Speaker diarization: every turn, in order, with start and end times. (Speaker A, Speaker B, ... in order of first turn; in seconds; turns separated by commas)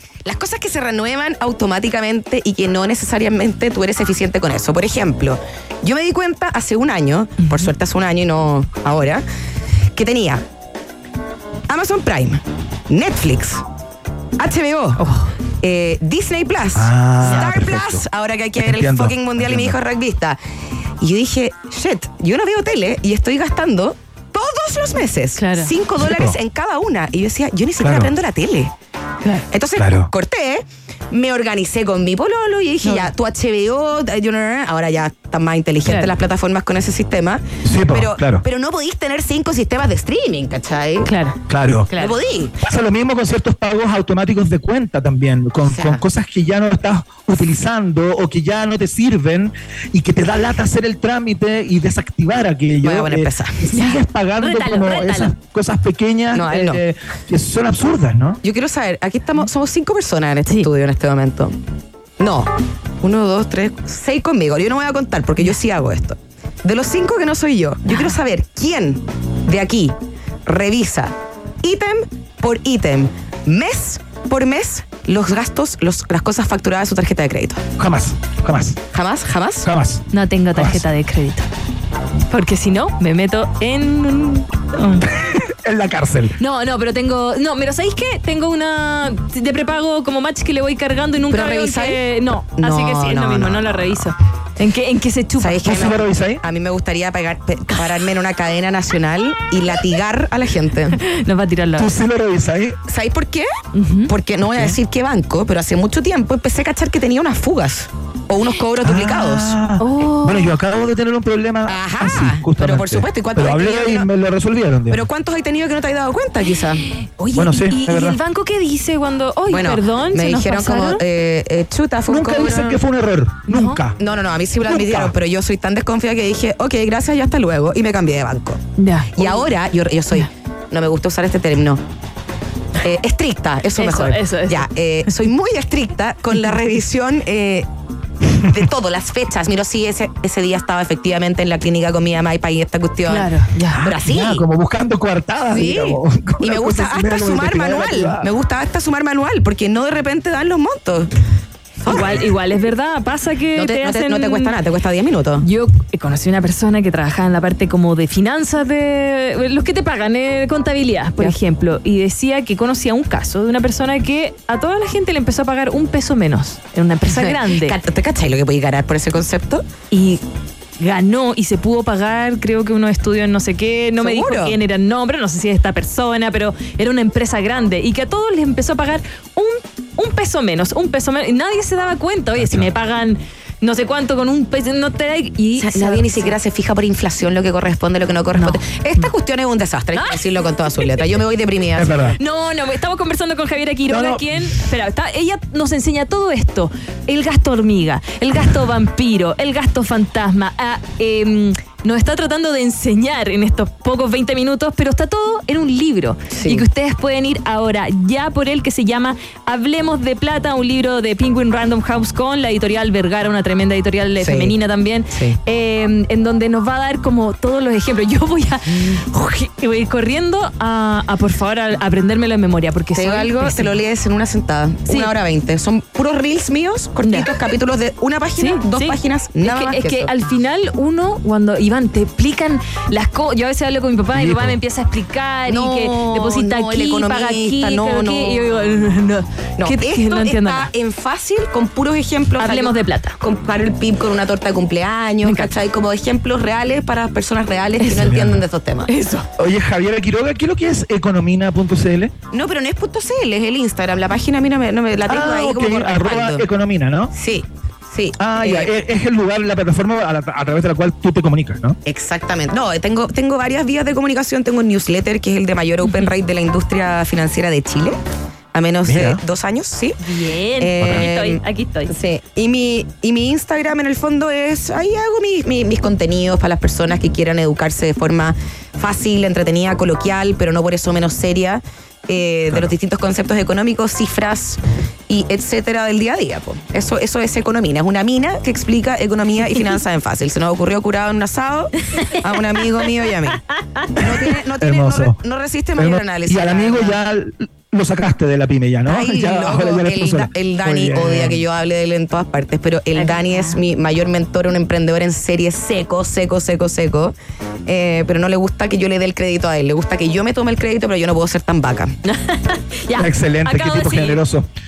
Speaker A: 0.2-9.2, Speaker B: 7.4-7.7, Speaker A: 9.9-10.4, Speaker A: 11.7-13.6, Speaker A: 14.4-15.0, Speaker B: 15.0-15.3, Speaker A: 15.6-20.4, Speaker C: 16.7-18.0, Speaker C: 18.6-19.8, Speaker A: 21.0-28.7, Speaker B: 25.4-25.7, Speaker C: 26.0-26.4, Speaker C: 27.8-28.1, Speaker A: 29.5-41.1, Speaker C: 29.8-30.1, Speaker B: 32.8-33.1, Speaker B: 35.8-36.1, Speaker C: 37.6-38.4, Speaker B: 41.0-41.4, Speaker C: 41.5-41.9, Speaker A: 41.9-42.5, Speaker B: 41.9-42.1, Speaker C: 42.6-58.4, Speaker A: 45.6-46.0, Speaker A: 52.8-53.6, Speaker B: 53.7-55.3, Speaker A: 56.3-56.8, Speaker A: 58.4-61.5, Speaker A: 62.2-62.5, Speaker A: 63.0-69.9, Speaker B: 67.9-68.2, Speaker A: 70.5-77.6, Speaker C: 77.8-78.8, Speaker A: 78.9-79.7, Speaker C: 79.6-80.8, Speaker B: 80.1-81.5, Speaker B: 82.3-85.1, Speaker C: 85.1-86.3, Speaker B: 86.4-95.7, Speaker A: 91.3-93.9, Speaker A: 95.4-101.0, Speaker C: 95.6-96.4, Speaker B: 101.0-101.9, Speaker C: 101.8-102.8, Speaker A: 102.9-103.5, Speaker B: 103.7-104.1, Speaker A: 104.1-109.6, Speaker C: 104.5-104.7, Speaker C: 108.8-115.0, Speaker B: 109.8-110.5, Speaker A: 111.7-114.1, Speaker A: 114.9-116.8, Speaker B: 117.2-121.0, Speaker C: 117.3-118.2, Speaker A: 119.5-122.8, Speaker C: 122.1-124.0, Speaker B: 123.5-123.8, Speaker A: 124.0-128.6, Speaker C: 124.6-125.1, Speaker B: 128.8-129.5, Speaker A: 129.1-131.8, Speaker A: 132.8-137.7, Speaker B: 133.8-134.7, Speaker A: 138.4-144.4, Speaker B: 143.1-143.9, Speaker C: 143.8-148.3, Speaker A: 145.5-151.1, Speaker A: 151.8-152.3, Speaker B: 151.9-154.6, Speaker A: 153.5-155.4, Speaker B: 155.4-167.8, Speaker A: 167.1-169.6, Speaker B: 169.9-170.2, Speaker B: 170.8-186.3, Speaker A: 174.0-174.6, Speaker C: 182.4-182.7, Speaker A: 185.6-192.1, Speaker B: 188.3-189.0, Speaker B: 189.9-191.1, Speaker C: 191.8-192.2, Speaker B: 192.1-223.8, Speaker C: 193.9-194.5, Speaker A: 206.3-206.7, Speaker A: 214.2-214.6, Speaker A: 215.1-215.4, Speaker A: 218.7-219.0, Speaker A: 222.9-230.1, Speaker B: 224.8-225.1, Speaker B: 227.0-227.3, Speaker B: 228.4-240.7, Speaker C: 234.1-234.6, Speaker A: 235.5-238.5, Speaker A: 239.6-248.9, Speaker B: 242.4-243.2, Speaker B: 245.2-245.5, Speaker C: 247.8-248.4, Speaker B: 248.9-249.3, Speaker C: 249.4-252.1, Speaker A: 252.3-256.4, Speaker C: 255.1-257.1, Speaker A: 257.1-258.7, Speaker C: 258.2-261.8, Speaker A: 261.8-268.0, Speaker B: 265.8-266.1, Speaker A: 268.5-270.0, Speaker C: 268.8-269.2, Speaker B: 270.0-271.9, Speaker A: 270.6-293.4, Speaker C: 270.8-271.1, Speaker A: 293.9-297.0, Speaker C: 294.0-295.2, Speaker C: 295.8-301.4, Speaker A: 298.9-307.1, Speaker B: 302.9-303.6, Speaker A: 307.6-311.9, Speaker B: 312.0-314.2, Speaker C: 312.9-314.5